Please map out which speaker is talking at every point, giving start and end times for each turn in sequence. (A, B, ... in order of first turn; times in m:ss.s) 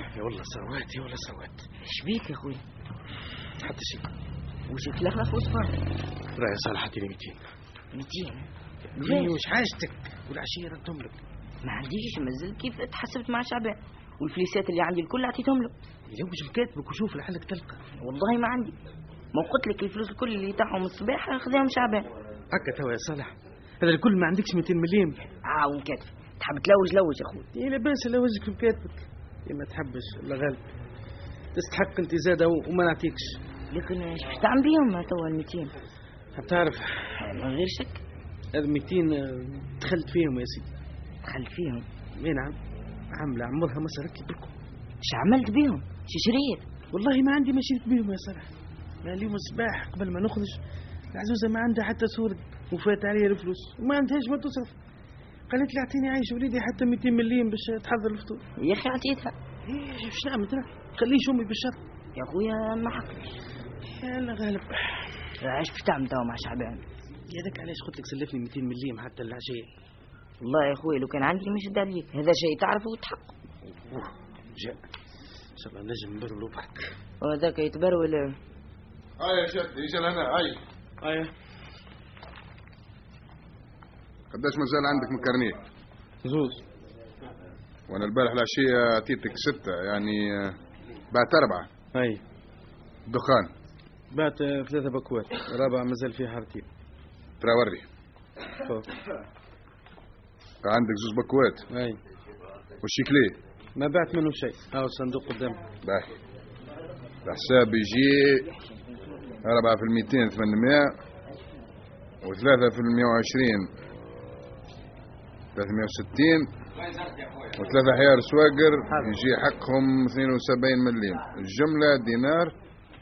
0:00.1-0:01.6 A
0:01.8-0:02.6 B
0:03.6-0:04.1 A
0:04.7-0:05.8 B
0:06.3-0:07.4 A
0:07.9-0:09.4 B
0:09.0-0:11.2 A
0:11.6-0:15.7 B
0:16.1-0:17.8 A
0:18.0-0:18.7 B
0:19.3-0:22.1 B
0:22.5-0:25.2 A
0:25.4-0:27.5 B
0:27.5-0:30.7 A
0:31.5-0:33.4 A
0:33.7-0:35.7 B
0:36.4-0:37.1 A
0:37.2-0:38.0 B
0:38.5-0:40.7 A
0:41.2-0:41.8 B
0:42.2-0:42.6 A
0:43.2-0:44.5 A
0:45.0-0:46.6 B
0:46.9-0:48.5 A
0:49.0-0:50.6 A
0:51.1-0:54.7 A
0:55.5-0:58.4 A
0:58.6-0:59.3 B
0:59.7-1:01.8 A
1:02.2-1:03.4 B
1:03.9-1:05.0 A
1:05.4-1:06.8 B
1:07.3-1:09.7 A
1:10.4-1:13.3 B
1:15.6-1:16.9 A
1:17.2-1:18.4 B
1:19.2-1:20.6 C
1:21.0-1:21.3 A
1:24.3-1:25.6 C
1:26.2-1:26.6 A
1:27.9-1:30.6 C
1:31.1-1:31.7 C
1:31.9-1:32.2 A
1:33.1-1:33.5 C
1:34.1-1:36.7 A
1:37.4-1:37.9 C
1:40.6-1:41.6 C
1:41.7-1:42.0 A
1:42.8-1:43.4 C
1:43.8-1:45.6 A
1:45.8-1:46.1 C
1:47.2-1:48.5 C
1:49.4-1:50.9 C
1:52.2-1:53.7 C
1:55.5-1:56.5 C
1:57.6-2:02.5 C